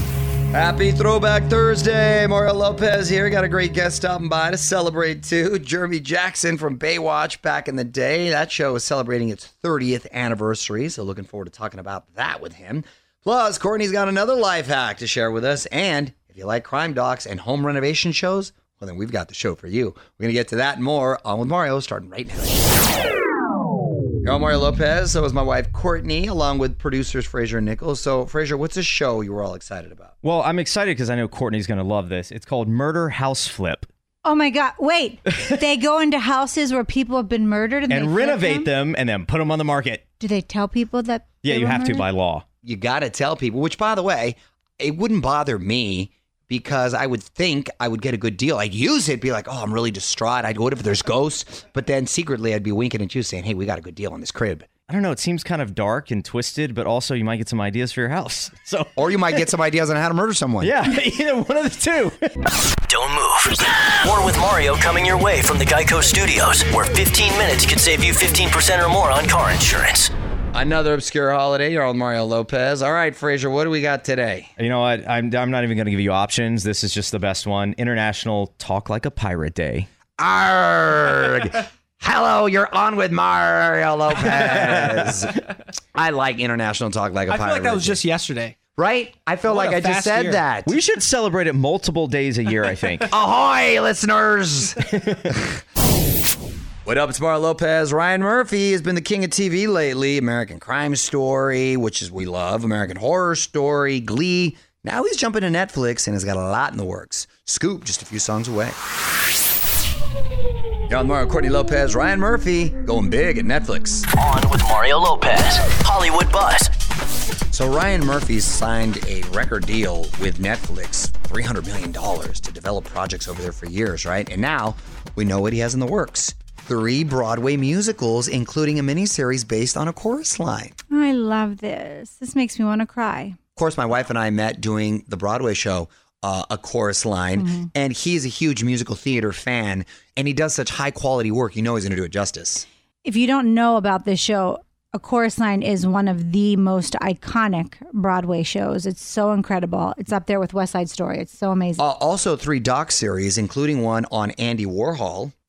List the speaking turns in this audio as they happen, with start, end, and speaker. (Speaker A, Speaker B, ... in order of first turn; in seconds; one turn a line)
Speaker A: 0.5-22.6
Speaker A: 24.2-30.1
Speaker B: 30.2-33.9
Speaker C: 34.2-38.7
Speaker B: 37.9-40.0
Speaker C: 40.2-42.1
Speaker B: 41.4-42.4
Speaker A: 42.6-54.8
Speaker B: 54.8-59.5
Speaker A: 58.9-60.8
Speaker B: 60.6-62.5
Speaker D: 62.9-70.1
Speaker A: 70.5-74.5
Speaker B: 74.6-79.9
Speaker A: 80.2-85.4
Speaker B: 84.4-85.0
Speaker A: 85.9-88.0
Speaker E: 87.3-88.5
Speaker A: 88.8-90.7
Speaker E: 89.5-90.4
Speaker B: 90.7-93.1
Speaker A: 93.1-94.8
Speaker B: 94.9-95.4
Speaker A: 96.8-108.8
Speaker A: 110.9-114.1
Speaker D: 114.2-116.7
Speaker A: 117.5-130.7
Speaker C: 130.9-133.4
Speaker A: 133.6-142.6
Speaker C: 137.3-137.7
Speaker C: 143.0-151.8
Speaker A: 151.8-155.3